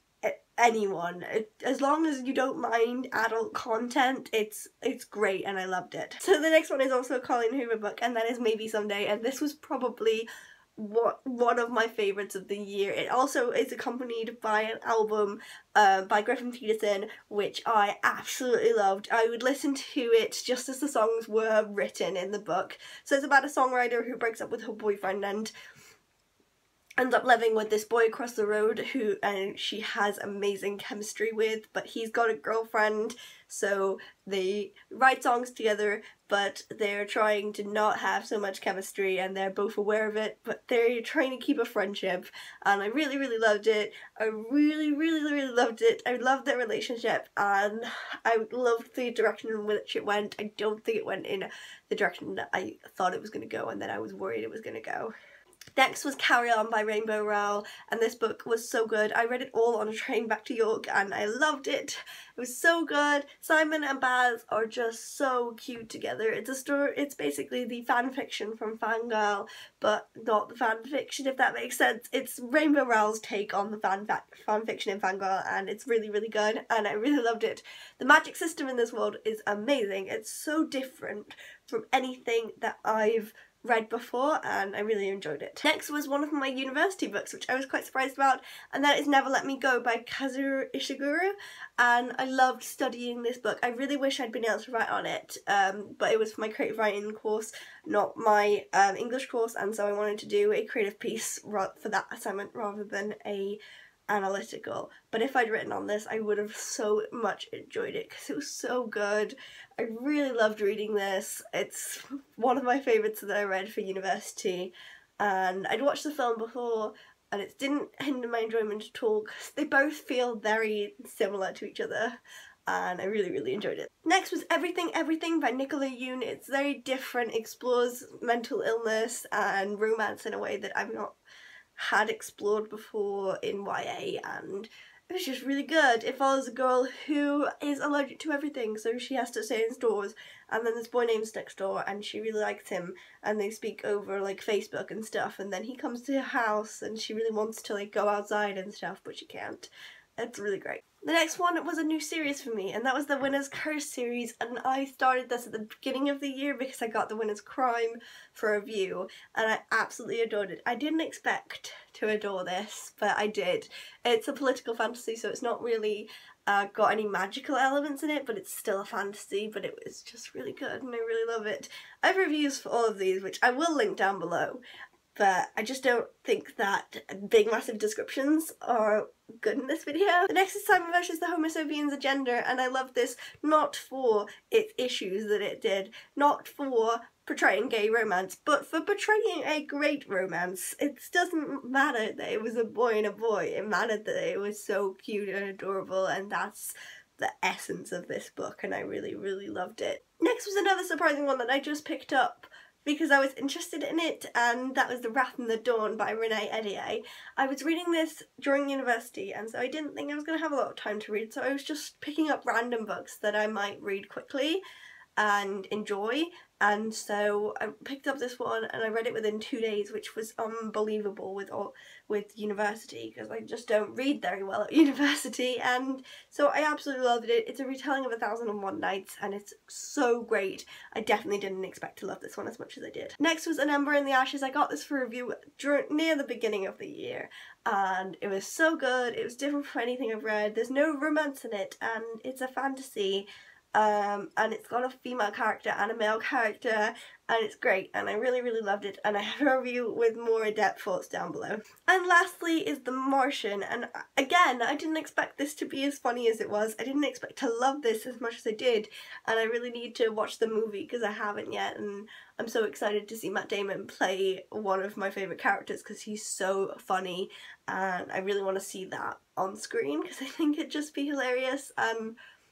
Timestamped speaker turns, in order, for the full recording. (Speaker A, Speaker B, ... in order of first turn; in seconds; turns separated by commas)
Speaker A: 0.2-25.5, Speaker A: 27.0-55.1, Speaker A: 55.8-131.1, Speaker A: 131.8-174.6, Speaker A: 175.2-214.6, Speaker A: 215.2-272.2